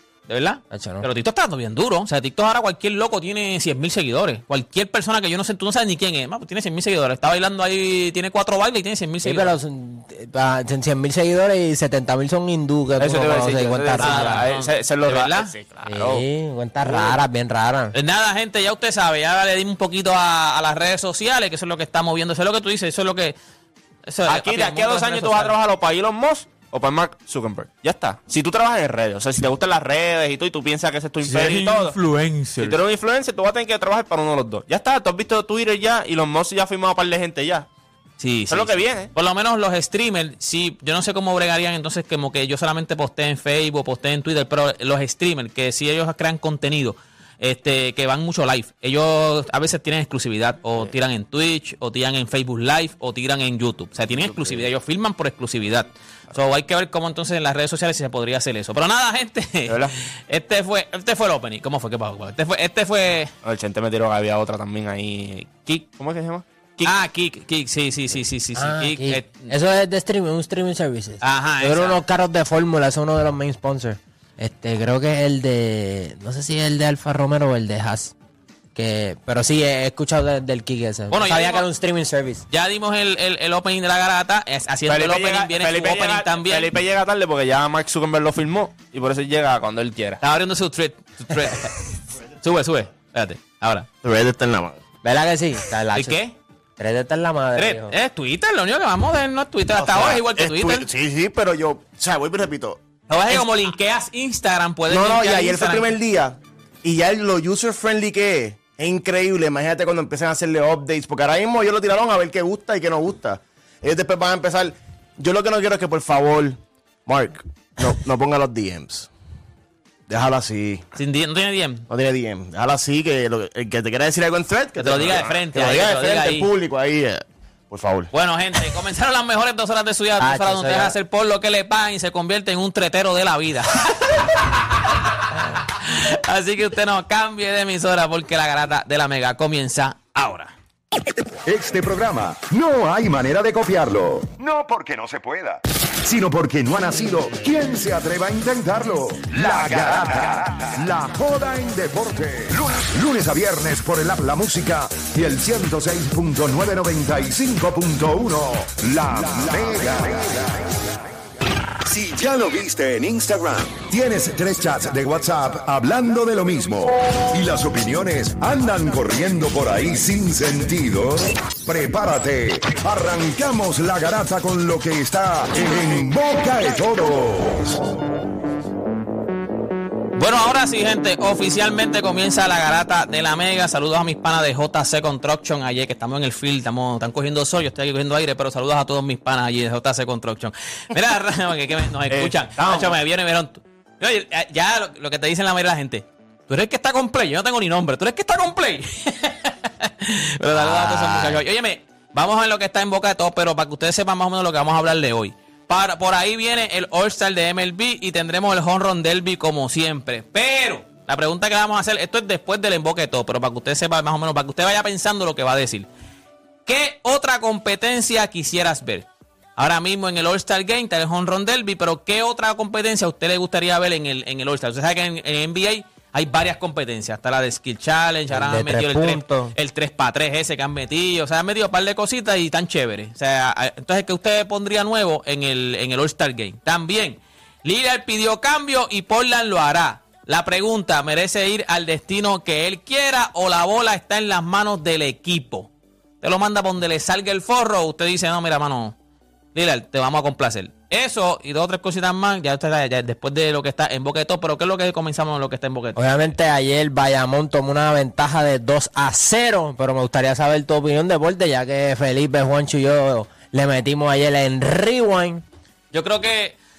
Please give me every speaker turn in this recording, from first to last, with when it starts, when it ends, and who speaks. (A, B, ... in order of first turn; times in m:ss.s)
0:00.3-0:09.5 A
0:00.7-0:01.0 B
0:09.2-0:14.4 B
0:13.0-0:16.2 C
0:14.0-0:15.5 A
0:15.8-0:17.9 B
0:16.8-0:17.2 C
0:17.9-0:23.3 A
0:24.1-0:25.5 A
0:24.3-0:32.0 C
0:31.2-0:32.8 A
0:32.6-0:37.7 C
0:38.2-1:03.3 A
0:38.5-0:39.1 C
0:59.7-1:00.0 C
1:03.4-1:06.9 C
1:06.8-1:09.5 A
1:08.6-1:18.1 B
1:11.2-1:12.0 A
1:18.7-1:22.4 B
1:21.1-1:21.6 A
1:22.5-1:26.7 A
1:24.9-1:30.2 C
1:30.2-1:31.8 A
1:32.4-1:33.9 A
1:34.0-1:34.8 D
1:35.0-1:36.2 B
1:35.9-1:36.3 A
1:36.8-1:38.0 B
1:37.6-1:40.9 A
1:39.8-1:42.8 D
1:43.1-1:45.9 A
1:44.9-1:59.1 D
2:00.1-2:00.8 D
2:00.9-2:01.9 A
2:01.9-2:08.1 D
2:04.8-2:06.5 A
2:08.1-2:20.5 A
2:10.2-2:11.0 B
2:21.4-2:40.6 E
2:41.8-2:57.8 E
3:00.2-3:35.9 A
3:12.1-3:13.0 C
3:20.5-3:21.4 B
3:36.6-4:05.7 A
3:48.3-3:49.5 B
4:06.2-4:09.0 A
4:09.5-4:16.0 A
4:15.9-4:25.4 B
4:25.9-4:26.6 A